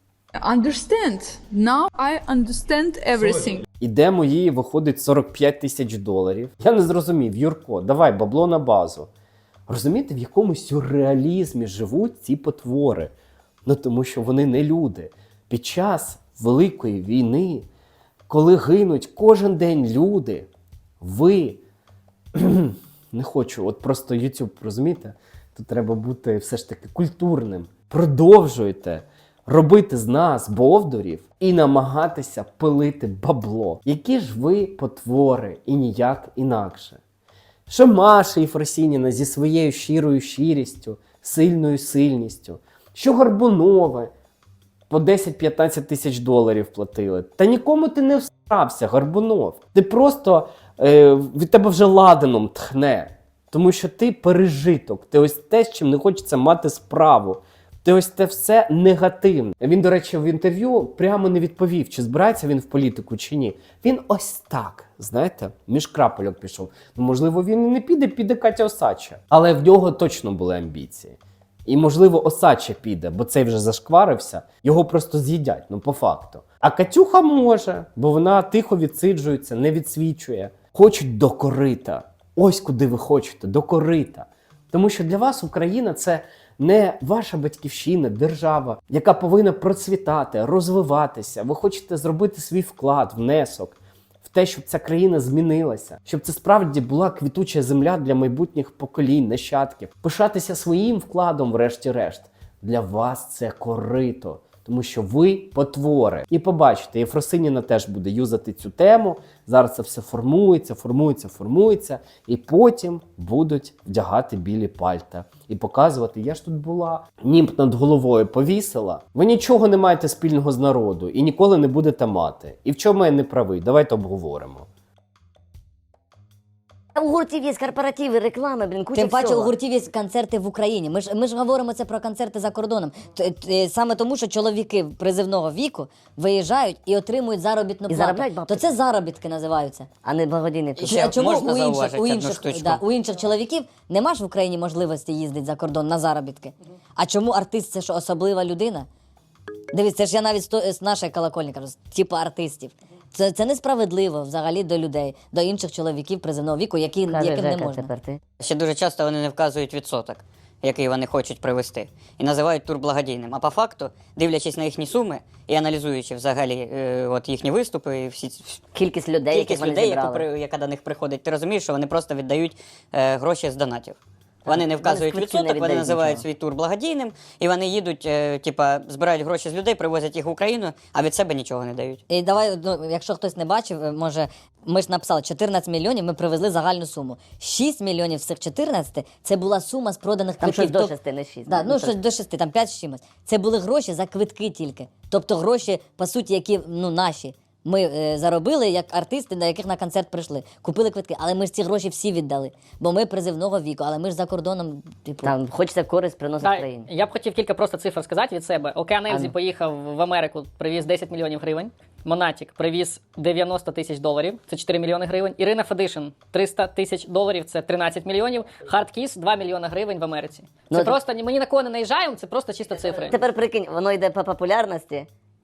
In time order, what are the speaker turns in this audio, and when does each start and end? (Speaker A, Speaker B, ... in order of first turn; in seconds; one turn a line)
Speaker A: 0.4-3.6
Speaker B: 3.8-9.1
Speaker B: 9.7-13.1
Speaker B: 13.6-17.7
Speaker B: 18.3-20.5
Speaker B: 21.0-21.6
Speaker B: 22.3-37.0
Speaker B: 37.7-44.1
Speaker B: 44.9-124.7
Speaker C: 127.0-129.5
Speaker D: 128.9-139.9
Speaker C: 137.9-138.7
Speaker C: 140.0-141.2
Speaker D: 140.8-148.9
Speaker E: 140.8-142.8
Speaker D: 149.7-157.9
Speaker C: 157.1-158.2
Speaker E: 158.4-168.6
Speaker C: 168.7-170.3
Speaker E: 169.3-174.0
Speaker C: 174.5-176.2
Speaker E: 174.5-182.0
Speaker D: 182.1-190.9
Speaker C: 190.4-191.9
Speaker D: 191.5-205.3
Speaker C: 205.2-206.9
Speaker F: 206.4-223.2
Speaker C: 220.7-221.0
Speaker C: 222.7-225.1